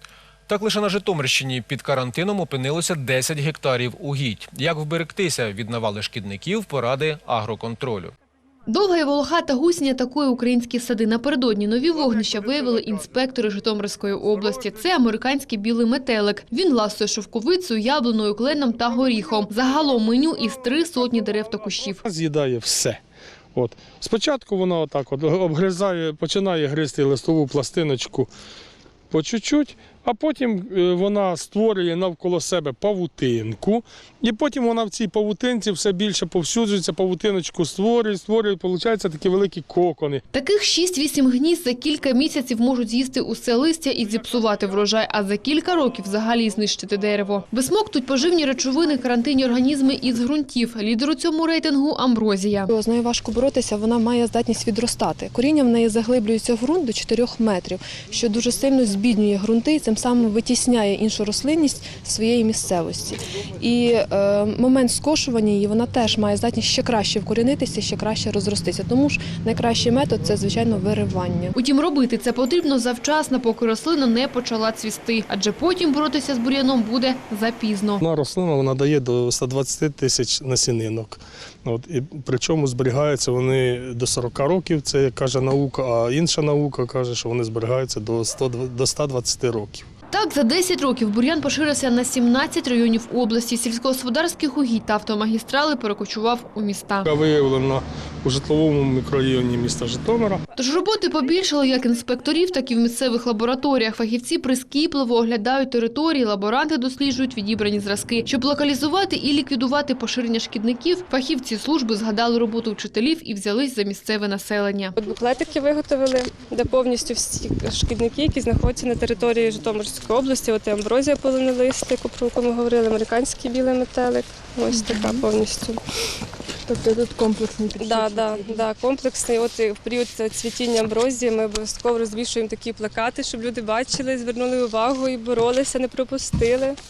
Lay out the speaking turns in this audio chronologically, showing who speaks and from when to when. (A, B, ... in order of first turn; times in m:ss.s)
0:00.5-0:08.1 A
0:08.7-0:22.0 B
0:22.0-0:23.0 C
0:23.5-0:28.3 C
0:29.1-0:40.2 C
0:40.3-0:52.7 B
0:52.7-1:11.6 D
1:11.6-1:18.0 B
1:18.0-1:29.9 C
1:30.1-1:37.1 B
1:37.1-1:40.4 C
1:40.6-1:55.0 B
1:55.0-2:05.8 E
2:04.7-2:05.2 D
2:06.7-2:08.6 D
2:07.8-2:16.8 E